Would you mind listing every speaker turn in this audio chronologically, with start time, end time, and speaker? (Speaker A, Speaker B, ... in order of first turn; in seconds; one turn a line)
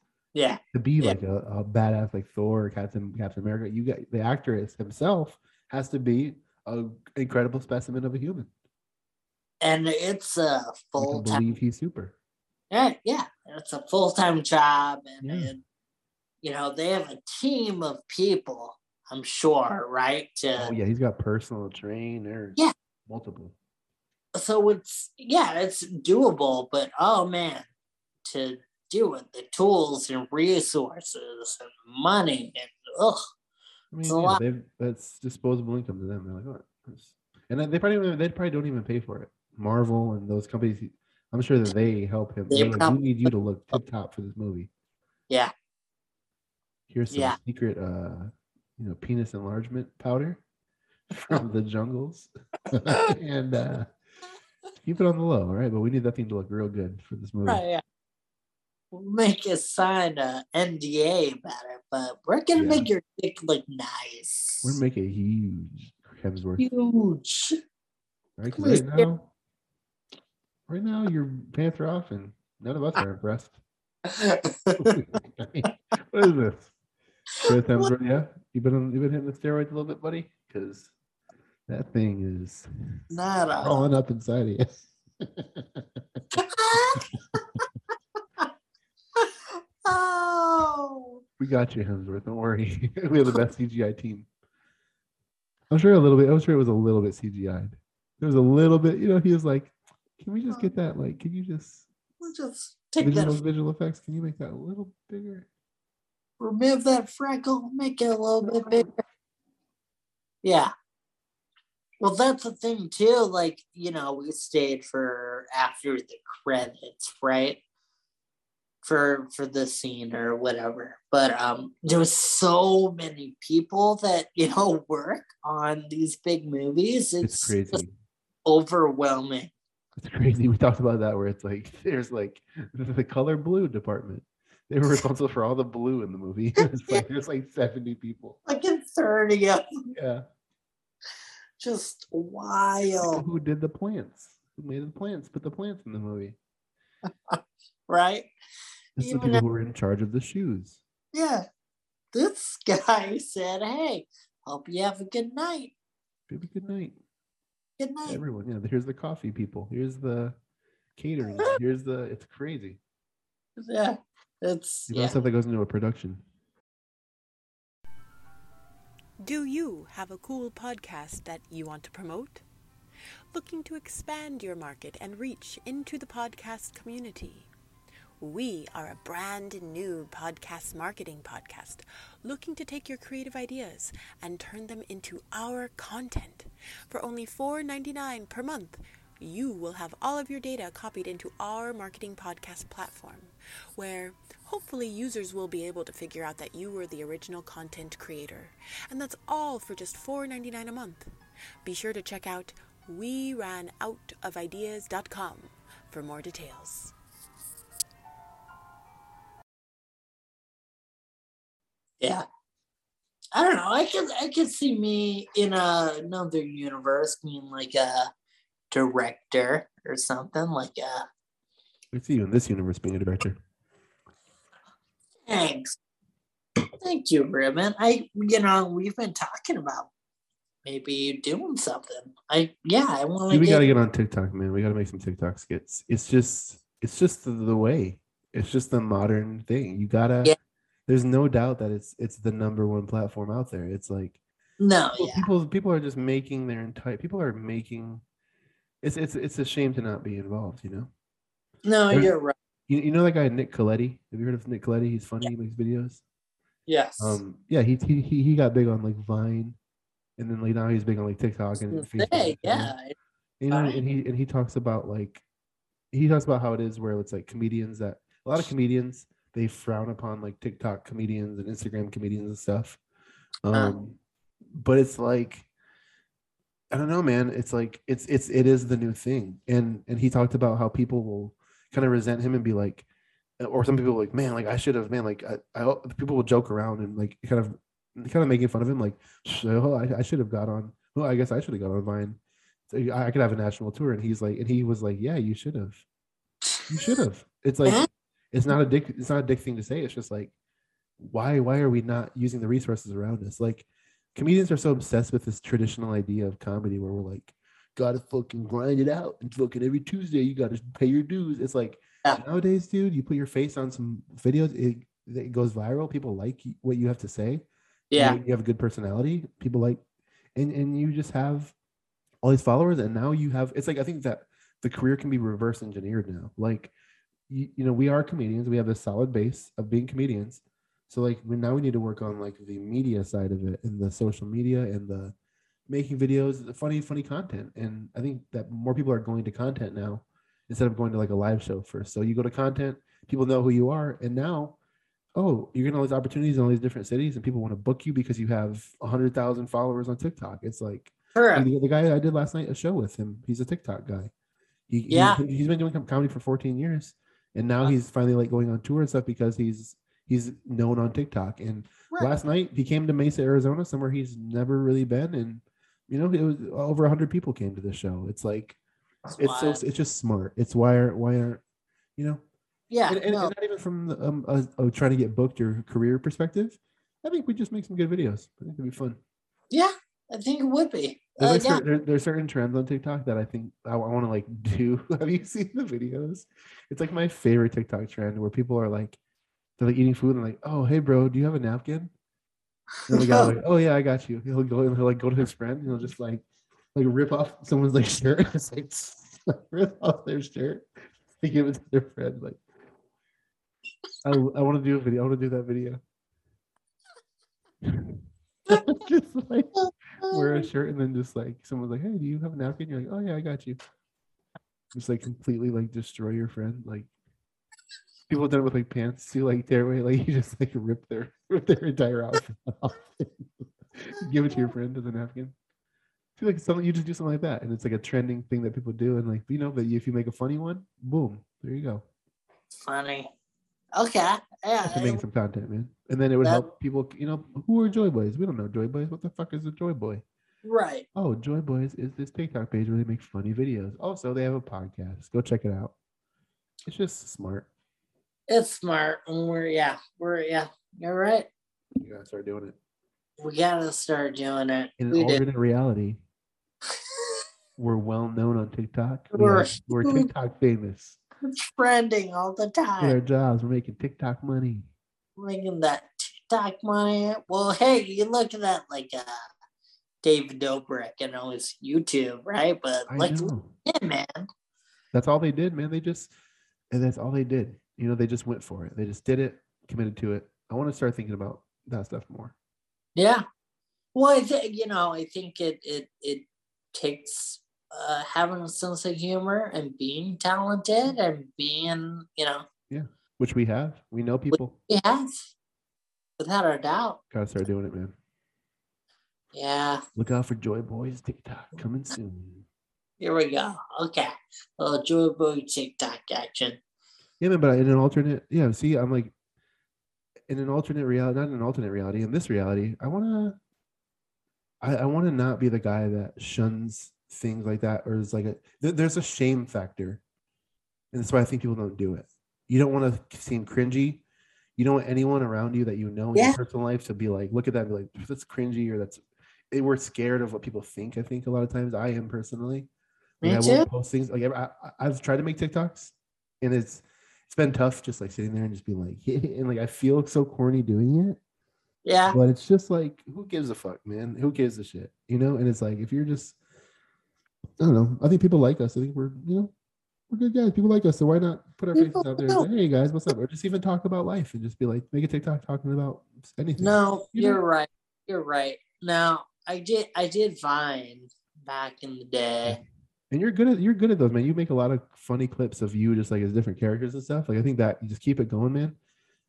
Speaker A: 0.3-1.2
Speaker B: 0.7-8.5
Speaker A: 9.6-11.5
Speaker B: 11.0-12.2
Speaker A: 12.7-15.6
Speaker B: 15.2-15.5
Speaker A: 16.4-20.7
Speaker B: 20.6-23.6
Speaker A: 24.4-27.7
Speaker A: 28.2-33.2
Speaker B: 33.9-44.7
Speaker A: 34.1-34.4
Speaker A: 42.5-43.0
Speaker B: 46.9-50.4
Speaker A: 47.1-47.4
Speaker B: 51.1-53.9
Speaker A: 52.9-53.1
Speaker B: 54.8-57.6
Speaker A: 57.5-57.8
Speaker A: 58.9-64.8
Speaker B: 62.5-62.9
Speaker B: 64.6-66.7
Speaker A: 66.6-67.6
Speaker B: 68.4-69.3
Speaker A: 68.6-69.1
Speaker B: 70.7-73.6
Speaker A: 74.1-75.0
Speaker B: 74.8-76.7
Speaker A: 77.4-77.9
Speaker B: 77.4-80.9
Speaker B: 81.7-82.7
Speaker A: 83.1-83.9
Speaker B: 83.6-86.2
Speaker A: 86.3-87.4
Speaker B: 87.0-87.4
Speaker A: 89.8-91.2
Speaker B: 91.4-94.3
Speaker B: 95.7-101.8
Speaker A: 102.2-103.4
Speaker B: 103.0-105.5
Speaker A: 106.4-108.9
Speaker B: 108.6-108.9
Speaker A: 110.4-110.7
Speaker A: 112.0-117.6
Speaker A: 118.8-127.8
Speaker B: 127.2-127.9
Speaker A: 128.5-129.5
Speaker B: 130.0-138.4
Speaker A: 138.5-139.6
Speaker B: 139.9-140.2
Speaker A: 141.6-143.2
Speaker B: 143.0-146.4
Speaker A: 147.3-148.3
Speaker B: 149.0-150.8
Speaker A: 149.0-149.4
Speaker A: 151.1-151.4
Speaker A: 152.1-155.7
Speaker B: 156.3-157.0
Speaker A: 157.8-158.2
Speaker B: 158.1-160.4
Speaker B: 161.0-162.8
Speaker A: 163.6-165.2
Speaker B: 164.9-166.2
Speaker C: 169.2-172.4
Speaker C: 173.3-177.5
Speaker C: 178.2-201.1
Speaker C: 201.6-206.9
Speaker A: 213.3-218.1
Speaker A: 218.7-221.0
Speaker B: 221.9-223.4
Speaker A: 225.3-225.8
Speaker A: 226.8-229.9
Speaker A: 230.6-233.7
Speaker B: 233.3-240.4
Speaker B: 240.9-244.2
Speaker A: 244.6-245.3
Speaker B: 245.0-248.0
Speaker B: 248.8-250.9
Speaker A: 251.7-252.3
Speaker B: 252.7-256.0
Speaker A: 256.7-257.2
Speaker B: 257.0-259.6
Speaker B: 260.2-262.7
Speaker A: 261.7-262.9
Speaker B: 263.4-265.2
Speaker A: 263.5-263.8
Speaker B: 265.9-272.8
Speaker B: 273.4-274.0
Speaker B: 274.5-275.5
Speaker B: 276.7-282.9
Speaker B: 283.4-295.8
Speaker A: 296.6-296.9
Speaker B: 296.7-300.3
Speaker B: 301.0-319.8
Speaker A: 317.9-318.2
Speaker B: 320.4-321.5
Speaker B: 322.2-326.7
Speaker B: 327.3-335.1
Speaker B: 335.7-344.6
Speaker B: 345.1-354.1
Speaker A: 351.1-351.5
Speaker B: 354.7-368.6
Speaker A: 354.9-355.2
Speaker A: 369.1-369.6
Speaker B: 369.2-371.4
Speaker B: 372.0-372.2
Speaker A: 372.7-373.3
Speaker B: 372.9-379.0
Speaker A: 379.5-381.6
Speaker B: 381.2-389.0
Speaker B: 389.6-391.9
Speaker B: 392.9-402.4
Speaker A: 392.9-393.3
Speaker B: 404.0-405.8
Speaker B: 407.6-413.6
Speaker A: 409.6-410.5
Speaker B: 414.7-416.9
Speaker B: 418.1-425.4
Speaker B: 426.2-431.8
Speaker A: 432.5-433.1
Speaker A: 433.8-435.0
Speaker B: 434.6-440.0
Speaker A: 440.4-440.9
Speaker B: 440.9-445.7
Speaker B: 446.7-447.5
Speaker A: 448.3-451.3
Speaker B: 451.8-452.6
Speaker A: 453.2-455.2
Speaker B: 454.8-456.0
Speaker B: 457.6-461.0
Speaker A: 459.1-460.1
Speaker A: 461.3-463.0
Speaker B: 462.8-464.7
Speaker A: 465.2-469.1
Speaker A: 470.0-474.3
Speaker B: 472.9-473.5
Speaker B: 474.9-476.1
Speaker B: 476.7-482.3
Speaker A: 483.0-483.2
Speaker A: 483.9-492.5
Speaker B: 492.7-494.6
Speaker A: 494.3-495.3
Speaker A: 496.2-497.0
Speaker B: 497.1-497.9
Speaker A: 499.3-499.8
Speaker B: 500.0-502.5
Speaker A: 503.0-506.6
Speaker B: 507.2-509.1
Speaker B: 510.3-513.4
Speaker B: 514.6-520.0
Speaker B: 520.9-524.0
Speaker B: 524.6-532.7
Speaker A: 533.2-533.7
Speaker B: 533.2-541.2
Speaker A: 541.9-542.2
Speaker B: 542.1-546.4
Speaker B: 547.6-549.5
Speaker B: 550.1-557.4
Speaker A: 551.8-552.5
Speaker A: 556.6-562.6
Speaker B: 563.1-568.8